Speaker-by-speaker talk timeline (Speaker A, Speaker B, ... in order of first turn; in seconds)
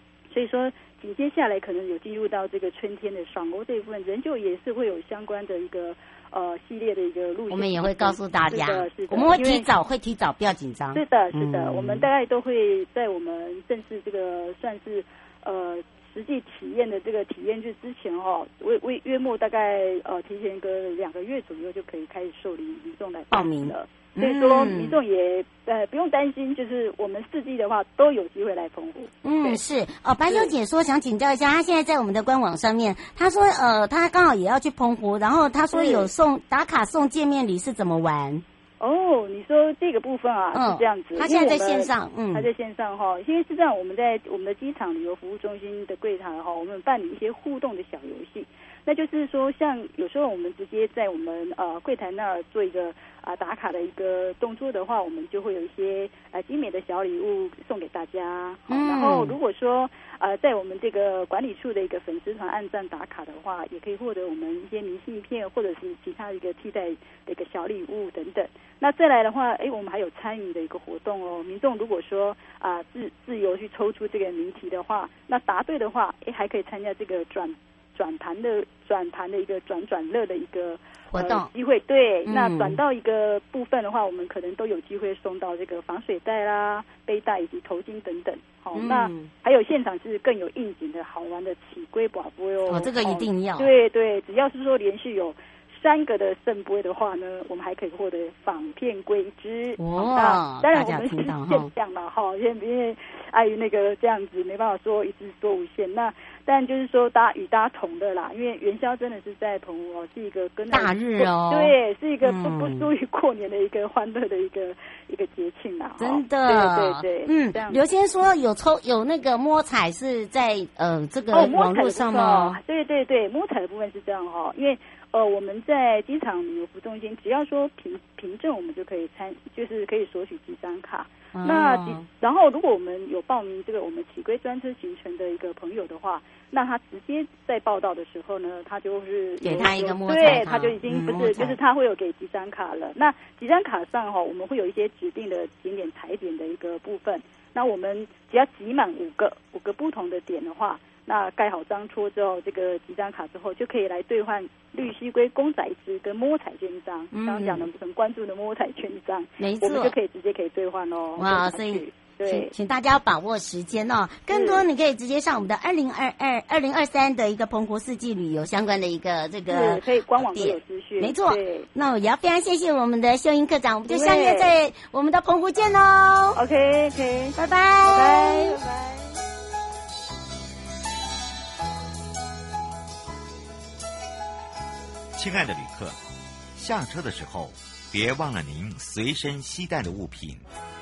Speaker A: 0.3-9.7, 10.9-29.6, 35.7-36.1, 38.8-117.8, 121.3-162.5, 164.3-164.6, 169.5-171.7, 173.9-174.5, 176.3-179.2
Speaker B: 7.5-12.1, 23.3-25.0, 29.2-38.5, 40.5-42.5, 58.7-59.4, 81.1-81.5, 82.3-82.8, 88.7-89.3, 92.7-93.7, 99.8-101.7, 110.7-112.9, 116.0-122.6, 131.3-132.1, 139.4-141.6, 157.1-157.7, 159.4-159.9, 161.2-176.4, 177.4-178.6
Speaker C: 185.2-186.0, 186.6-190.4